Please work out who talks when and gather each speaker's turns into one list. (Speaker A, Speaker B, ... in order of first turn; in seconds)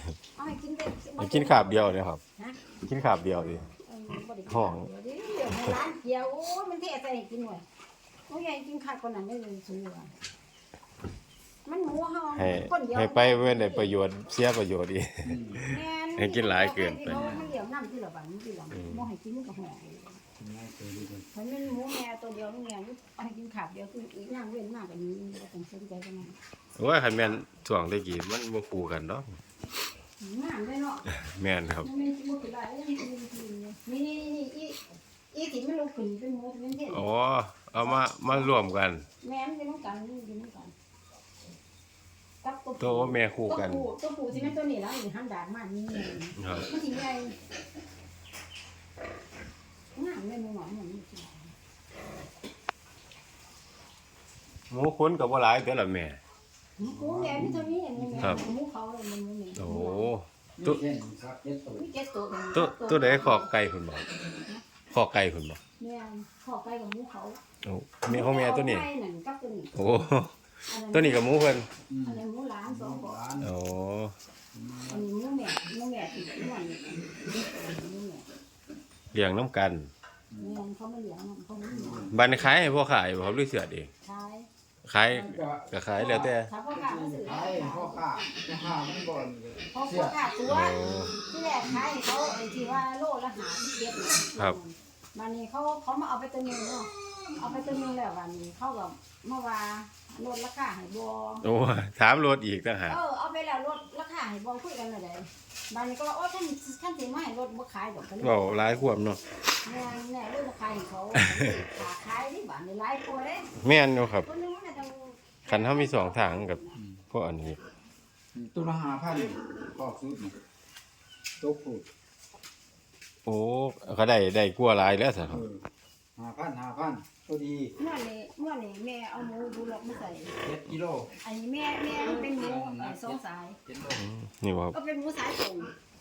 Speaker A: 0.4-2.6, 3.8-7.6, 8.3-10.1, 11.7-14.0, 15.6-20.2, 21.3-26.4, 30.2-31.1, 31.8-34.8, 35.3-37.1, 37.8-38.5, 39.2-40.7, 42.4-47.4, 49.9-51.5, 56.8-60.1, 61.7-63.5, 65.8-67.4, 68.1-69.7, 70.7-71.4, 72.0-73.2, 74.9-78.2, 80.4-82.1, 84.0-84.5, 86.0-88.0, 89.7-101.5, 102.9-108.6, 109.6-113.5, 114.2-116.8, 127.8-130.3, 131.2-133.6, 134.7-135.7
Speaker B: 1.2-2.2, 2.8-3.7, 4.5-4.9, 12.3-17.4, 18.7-19.1, 26.8-29.3, 31.2-31.9, 36.9-39.0, 42.8-43.9, 46.4-46.7, 54.7-56.2, 59.6-60.8, 62.5-64.1, 64.9-65.6, 67.6-68.8, 69.8-70.3, 70.9-71.7, 73.4-74.1, 79.1-79.9, 82.1-83.9, 84.8-86.5, 90.5-91.2, 101.4-103.0, 108.2-109.2, 111.2-111.4, 113.6-114.3, 115.5-116.6, 117.1-117.6, 123.2-125.5, 133.9-134.8
Speaker C: 15.2-15.6, 20.4-21.2, 56.8-58.5, 60.6-61.9, 71.9-73.5, 74.5-75.1, 80.3-80.6, 81.7-82.5, 85.1-90.2, 91.6-91.9, 116.7-117.0, 118.3-120.3, 121.4-121.9, 125.3-125.7, 126.2-127.7, 130.4-131.1, 131.9-134.0